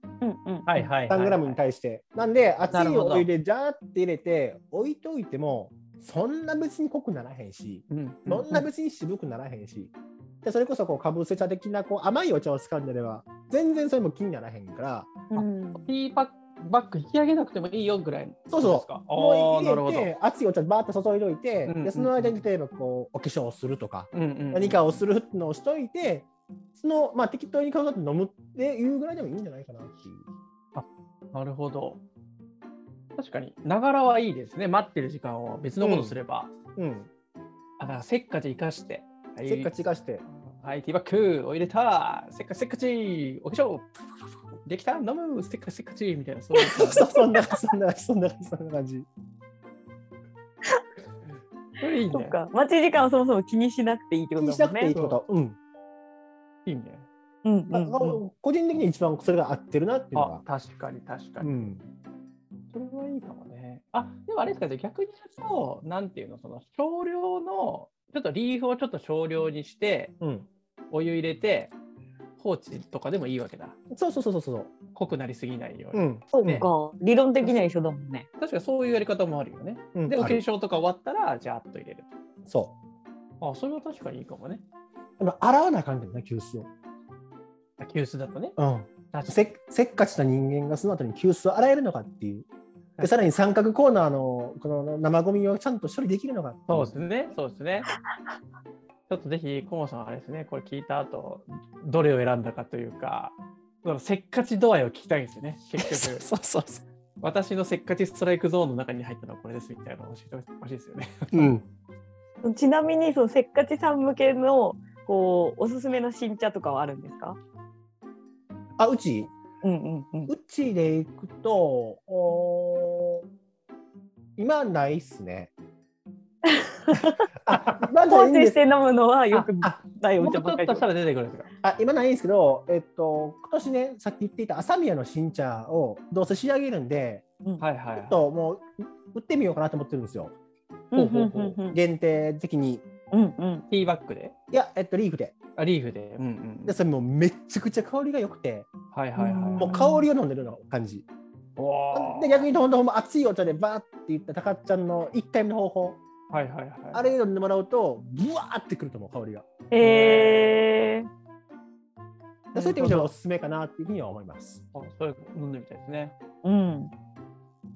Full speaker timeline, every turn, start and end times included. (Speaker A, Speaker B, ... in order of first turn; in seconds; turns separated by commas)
Speaker A: 0.2-0.9, Speaker B: 0.7-1.6, Speaker C: 1.1-15.1, Speaker B: 2.7-3.3, Speaker B: 7.9-8.7, Speaker A: 15.3-15.9, Speaker B: 15.3-20.1, Speaker C: 18.5-30.3, Speaker B: 21.6-22.4, Speaker B: 24.1-24.8, Speaker B: 30.8-32.0, Speaker B: 33.2-36.5, Speaker C: 35.8-36.2, Speaker C: 36.8-37.1, Speaker B: 37.8-39.7, Speaker C: 39.5-40.2, Speaker B: 40.3-43.9, Speaker B: 44.6-47.1, Speaker A: 46.7-47.2, Speaker C: 46.7-49.1, Speaker B: 51.8-52.4, Speaker A: 52.1-54.9, Speaker C: 54.4-55.6, Speaker B: 54.9-55.2, Speaker B: 56.6-57.1, Speaker A: 57.4-58.2, Speaker C: 57.7-60.4, Speaker B: 60.1-61.8, Speaker C: 61.4-61.8, Speaker B: 62.7-70.2, Speaker C: 70.2-70.5, Speaker B: 70.9-71.7, Speaker B: 72.4-73.8, Speaker C: 73.9-74.7, Speaker B: 74.9-76.7, Speaker C: 75.9-76.7, Speaker A: 76.3-78.3, Speaker B: 78.4-82.1, Speaker C: 80.0-80.4, Speaker C: 82.5-82.8, Speaker B: 83.4-84.6, Speaker C: 85.2-86.7, Speaker B: 87.8-88.6, Speaker C: 88.6-92.5, Speaker B: 89.1-89.4, Speaker C: 93.0-97.0, Speaker B: 96.7-97.9, Speaker B: 99.1-106.2, Speaker C: 105.8-106.8, Speaker B: 107.2-111.5, Speaker C: 111.3-111.7, Speaker A: 112.4-117.4, Speaker C: 118.8-119.3, Speaker A: 119.6-120.3, Speaker C: 120.3-123.2, Speaker C: 124.4-125.5, Speaker A: 126.4-127.4, Speaker C: 127.4-128.6, Speaker A: 128.1-130.8, Speaker B: 130.2-131.5, Speaker C: 131.6-137.2, Speaker B: 137.6-138.2, Speaker C: 138.0-140.4, Speaker A: 140.9-141.8, Speaker B: 140.9-141.6, Speaker C: 141.6-142.8, Speaker A: 143.1-143.7, Speaker B: 143.7-144.4, Speaker C: 144.5-145.3, Speaker B: 145.6-146.8, Speaker C: 146.7-148.7, Speaker B: 148.9-149.7, Speaker A: 149.2-150.1, Speaker C: 149.6-151.1, Speaker B: 151.6-152.5, Speaker C: 151.9-156.0, Speaker B: 156.3-157.1, Speaker C: 156.9-159.5, Speaker A: 159.7-161.1, Speaker B: 159.8-160.6, Speaker C: 162.5-164.7, Speaker A: 162.6-163.0, Speaker B: 162.8-163.1, Speaker B: 164.7-166.2, Speaker A: 166.4-166.9